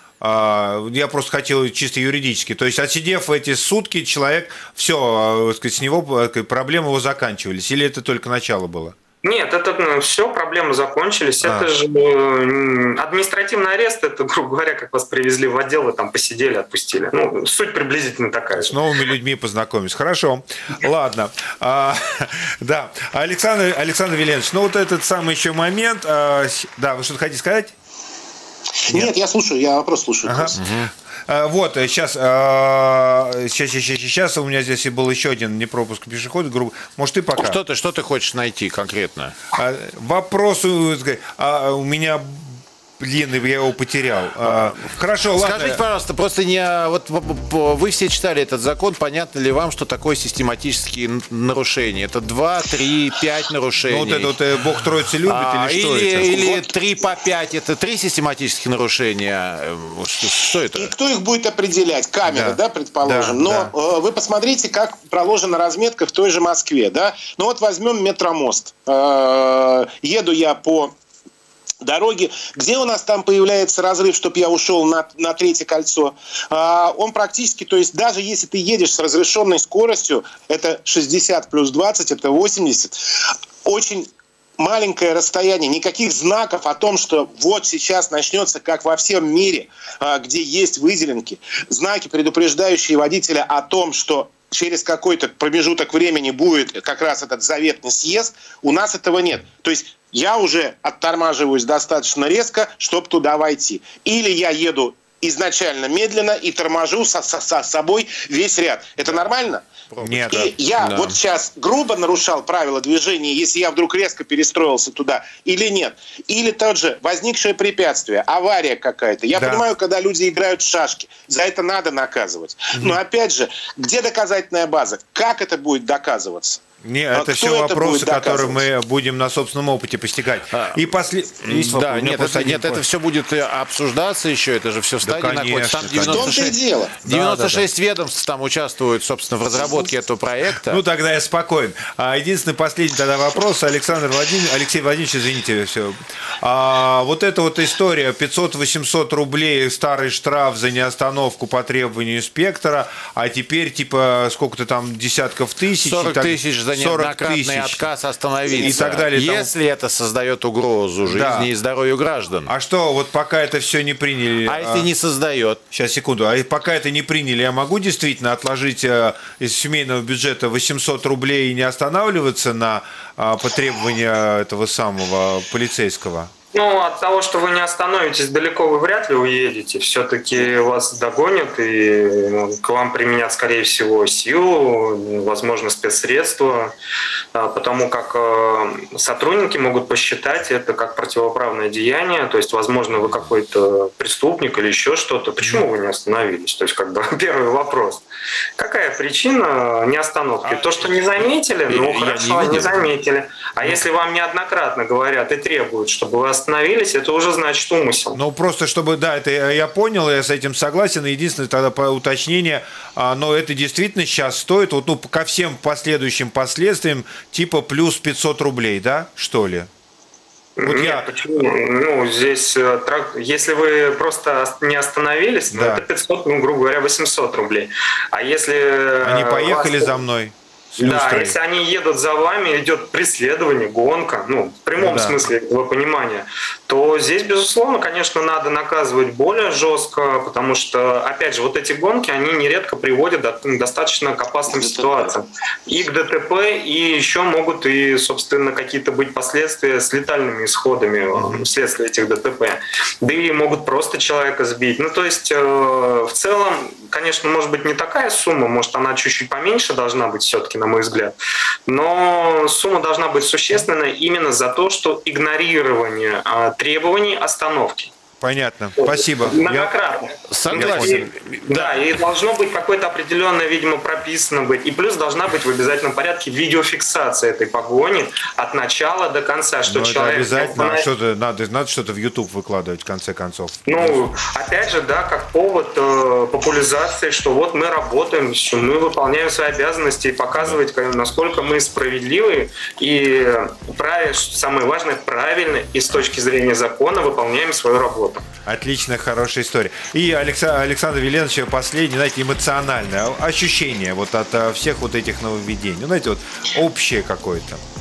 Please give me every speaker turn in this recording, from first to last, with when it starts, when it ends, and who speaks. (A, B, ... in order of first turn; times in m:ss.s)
0:00.2-0:09.0 A
0:09.2-0:18.8 B
0:11.4-0:11.7 A
0:18.5-0:27.7 A
0:28.8-0:30.6 C
0:30.2-0:30.6 A
0:30.6-0:30.9 D
0:31.3-0:37.6 A
0:37.4-0:39.4 D
0:39.5-0:45.8 A
0:44.5-0:54.4 D
0:53.8-0:56.7 A
0:55.2-1:00.9 D
1:00.8-1:10.9 C
1:02.3-1:03.7 A
1:11.8-1:49.6 C
1:49.9-1:51.2 D
1:50.0-1:50.5 A
1:50.3-2:06.6 C
1:59.4-1:59.6 A
2:02.7-2:03.0 A
2:06.8-2:12.8 A
2:07.1-2:08.6 C
2:10.5-2:10.8 D
2:11.4-2:20.8 D
2:15.0-2:16.5 A
2:16.0-2:17.0 C
2:17.0-2:17.6 A
2:20.7-2:37.9 A
2:35.8-2:42.5 D
2:38.5-2:39.5 A
2:41.0-2:41.5 A
2:42.5-2:44.9 A
2:44.5-2:45.6 D
2:45.7-2:56.3 A
2:56.5-3:06.7 B
3:07.4-3:18.0 B
3:18.6-3:28.2 B
3:20.4-3:22.9 D
3:28.2-3:39.7 A
3:40.6-3:50.0 B
3:40.6-3:41.1 A
3:45.5-3:45.8 A
3:49.0-3:51.4 A
3:50.8-4:21.1 B
3:54.8-3:55.3 A
4:04.5-4:05.1 C
4:11.1-4:11.5 A
4:21.7-4:27.9 B
4:28.2-4:29.7 A
4:28.8-4:40.9 B
4:30.3-4:31.8 D
4:30.5-4:31.0 A
4:39.7-4:44.1 A
4:43.7-4:58.2 B
4:58.5-5:07.6 A